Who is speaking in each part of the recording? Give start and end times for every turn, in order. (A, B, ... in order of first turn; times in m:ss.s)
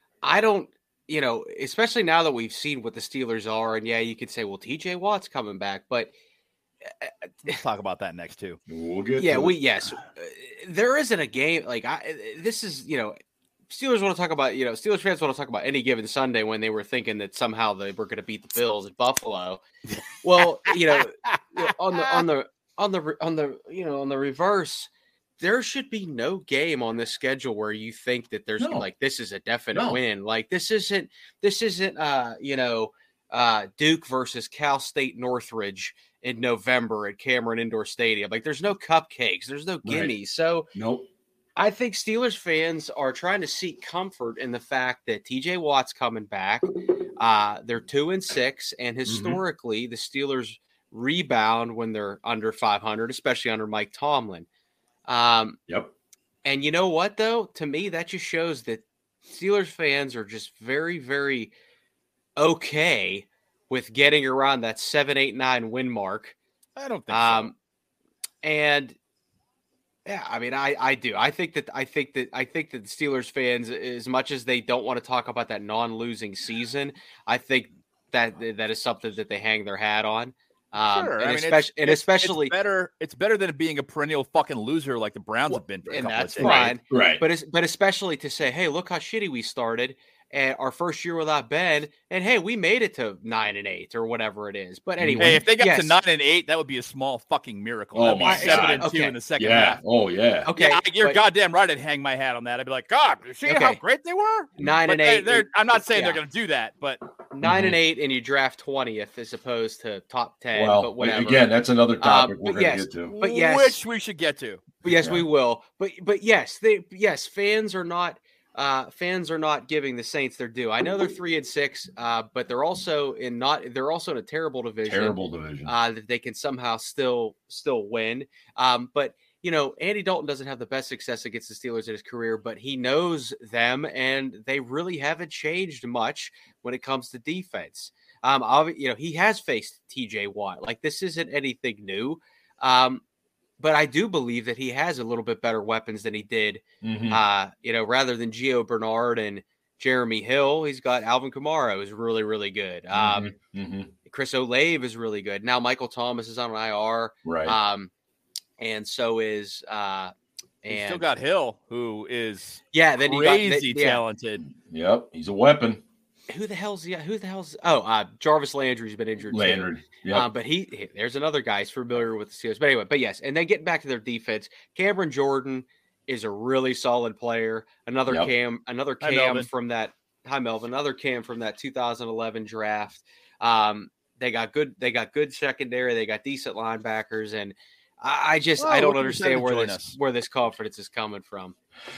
0:00.2-0:06.1 A
0:07.0-0:07.6 A
0:07.4-0:08.6 B
0:08.7-0:09.6 C
0:09.2-0:13.2 A
0:13.7-0:19.6 A
0:20.2-0:40.7 A
0:28.6-0:28.9 C
0:29.7-0:30.0 C
0:39.8-0:40.1 C
0:40.7-0:41.1 C
0:41.6-0:54.5 A
0:49.1-0:49.4 C
0:55.1-0:55.6 A
0:56.4-1:01.5 A
1:02.4-1:06.4 A
1:06.8-1:07.5 B
1:07.1-1:07.6 A
1:08.4-1:09.0 A
1:10.0-1:22.5 A
1:20.8-1:26.8 B
1:25.5-1:36.0 A
1:26.4-1:27.2 C
1:35.0-1:35.4 C
1:35.2-1:39.8 B
1:38.0-1:40.5 C
1:38.1-1:39.2 A
1:40.5-1:41.2 A
1:40.6-1:47.0 B
1:43.4-1:43.8 A
1:44.6-1:46.2 A
1:47.3-1:51.4 A
1:47.4-1:47.8 C
1:50.5-1:53.1 C
1:52.0-1:53.8 A
1:53.1-1:54.6 B
1:54.8-2:23.0 A
2:04.8-2:05.7 C
2:23.6-2:33.3 A
2:26.8-2:27.2 C
2:32.9-2:33.9 C
2:34.1-2:37.9 A
2:37.2-2:37.6 C
2:38.6-2:41.1 A
2:40.7-2:44.4 B
2:42.7-2:44.0 A
2:44.5-2:45.8 C
2:46.3-3:11.6 A
2:49.3-2:50.3 C
2:59.0-2:59.5 B
3:08.6-3:10.0 B